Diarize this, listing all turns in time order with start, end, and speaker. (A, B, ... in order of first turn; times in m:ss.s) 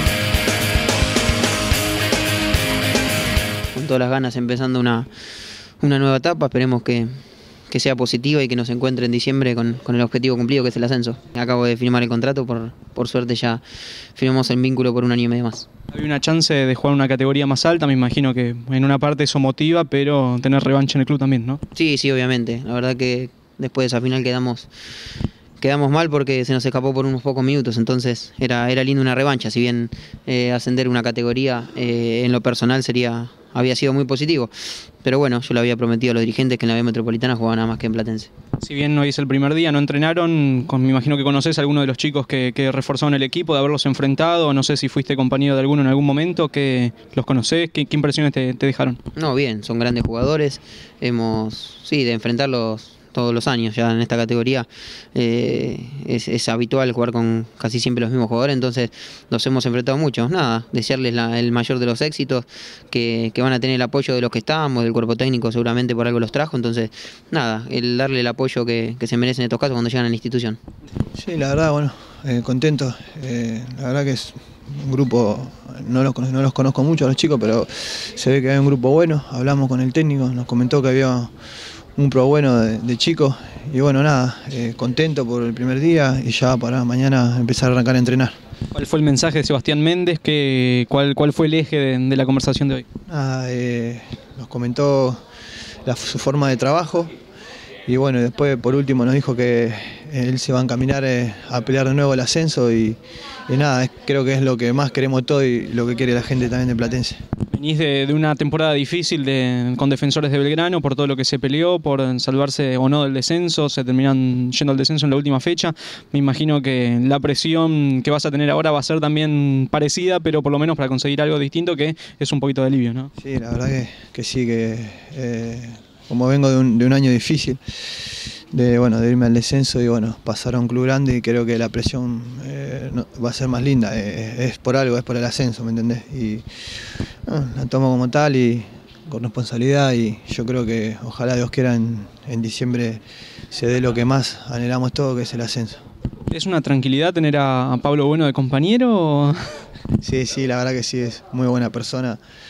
0:03.7-0:05.1 A
0:05.8-0:07.1 A
0:07.7-0:13.6 A
0:14.1-0:15.7 A
0:15.9-0:21.6 B
0:21.7-0:24.7 A
0:25.6-0:34.5 A
0:35.0-0:38.3 A
0:38.6-0:49.0 B
0:49.2-1:10.6 A
1:11.1-1:21.3 C
1:22.0-1:28.3 C
1:28.7-1:32.8 B
1:33.1-1:35.2 C
1:35.8-1:37.1 C
1:37.8-1:47.2 C
1:47.5-2:03.1 B
2:03.2-2:08.0 C
2:08.5-2:16.4 C
2:17.2-2:25.8 C
2:26.3-2:29.4 B
2:30.0-2:32.2 C